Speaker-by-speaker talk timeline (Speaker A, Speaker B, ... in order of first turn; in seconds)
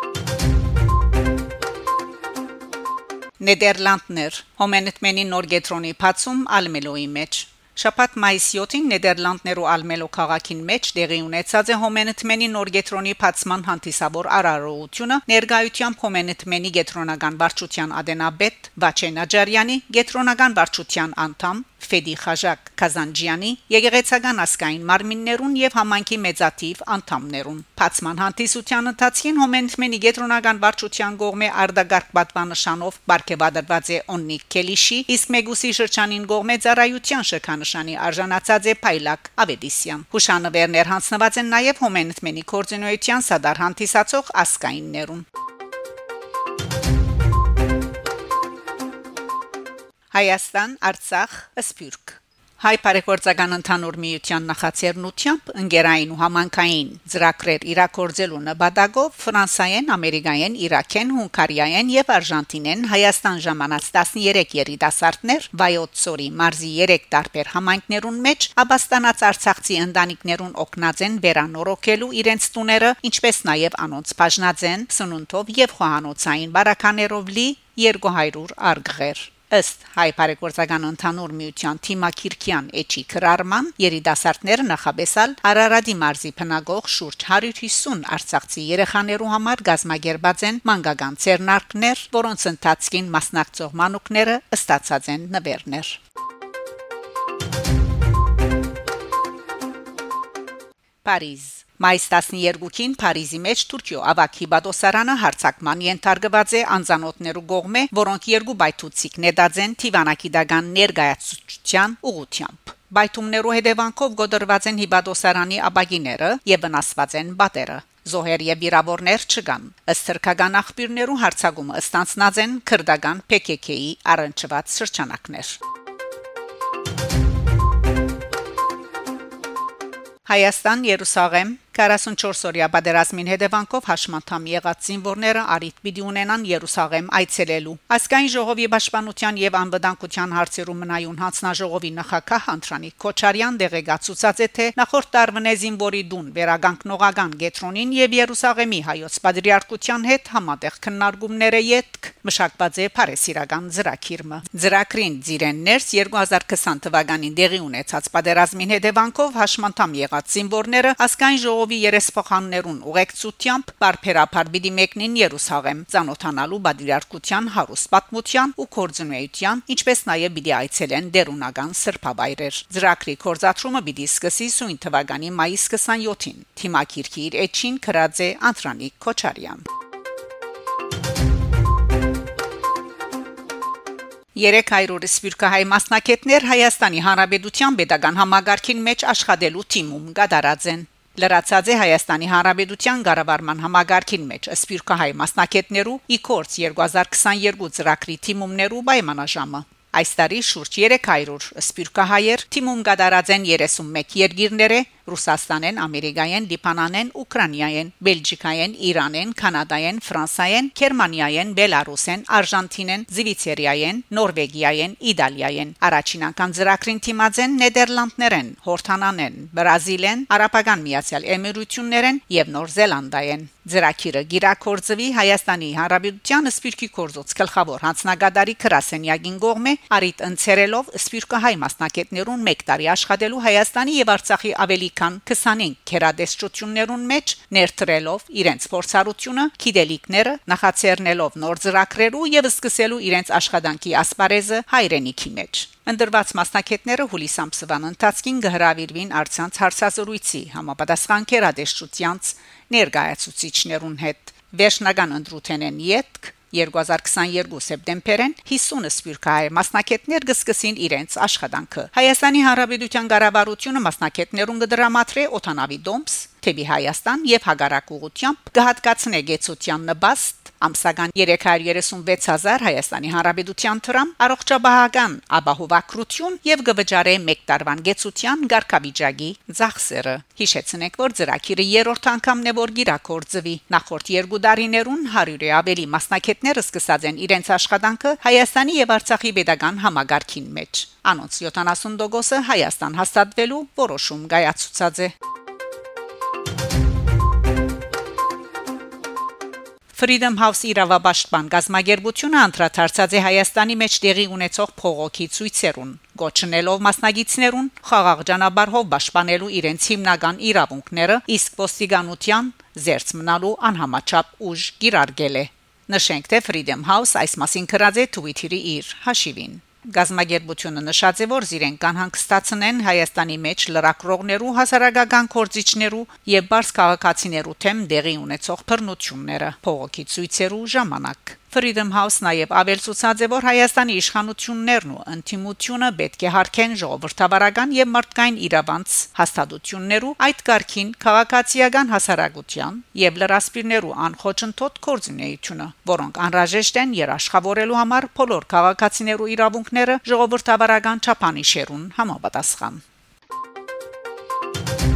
Speaker A: 3.4-45.3, 50.1-96.0, 101.0-125.6, 130.3-179.6, 184.3-295.1, 299.9-352.8